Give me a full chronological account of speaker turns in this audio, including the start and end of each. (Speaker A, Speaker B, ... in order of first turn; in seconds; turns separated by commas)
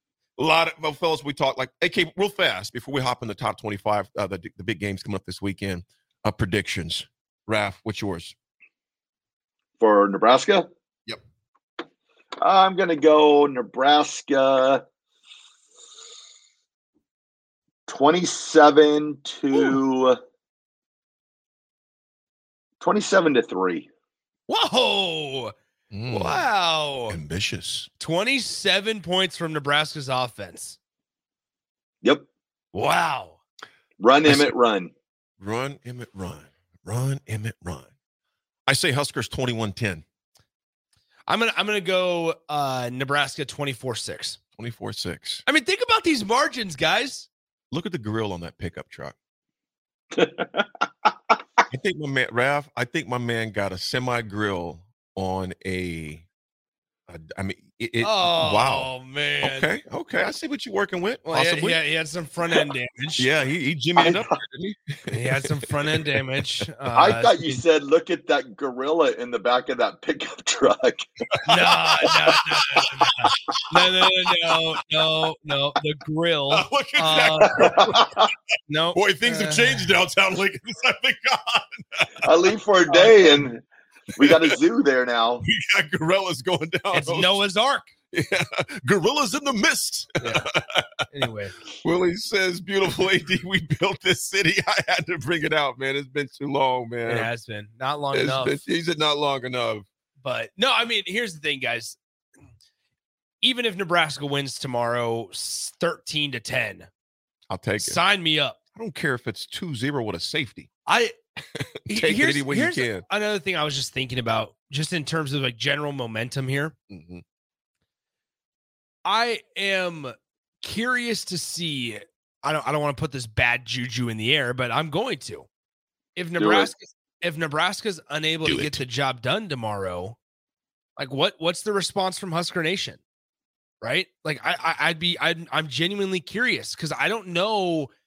Speaker A: 0.4-8.3, Speaker B: 9.8-10.7, Speaker B: 12.4-14.8, Speaker B: 17.9-20.2, Speaker B: 22.8-23.9, Speaker C: 24.5-25.5, Speaker A: 25.9-26.5, Speaker C: 26.1-27.2, Speaker A: 27.1-27.9, Speaker C: 28.0-30.8, Speaker C: 32.7-33.4, Speaker B: 34.0-34.9, Speaker A: 34.2-34.5, Speaker A: 35.4-37.9, Speaker A: 38.7-40.0, Speaker C: 41.3-44.4, Speaker A: 44.6-45.4, Speaker C: 45.5-47.3, Speaker A: 47.7-49.1, Speaker B: 50.1-50.8, Speaker A: 51.7-56.2, Speaker A: 57.1-58.9, Speaker C: 58.0-59.7, Speaker A: 59.4-61.8, Speaker C: 61.2-63.3, Speaker A: 63.2-66.1, Speaker B: 64.0-64.3, Speaker C: 65.1-67.6, Speaker B: 66.9-71.0, Speaker C: 71.5-77.7, Speaker A: 71.5-73.3, Speaker A: 76.5-78.0, Speaker B: 77.4-78.3, Speaker C: 78.7-79.9, Speaker A: 78.9-82.3, Speaker B: 82.2-83.6, Speaker C: 82.9-83.4, Speaker B: 84.2-85.4, Speaker A: 84.2-84.5, Speaker A: 85.4-87.4, Speaker C: 86.9-87.9, Speaker A: 88.1-90.9, Speaker C: 90.2-90.5, Speaker C: 91.1-91.5, Speaker A: 91.8-97.3, Speaker C: 97.0-98.6, Speaker A: 98.1-99.8, Speaker C: 100.2-102.0, Speaker C: 103.4-106.9, Speaker A: 107.5-108.0, Speaker C: 107.8-108.6, Speaker A: 108.8-110.7, Speaker C: 110.8-111.2, Speaker A: 111.6-113.0, Speaker C: 111.9-116.7, Speaker A: 116.9-117.2, Speaker C: 119.0-125.5, Speaker C: 126.1-130.2, Speaker B: 126.4-126.7, Speaker A: 128.4-128.8, Speaker C: 131.0-133.0, Speaker C: 133.8-137.9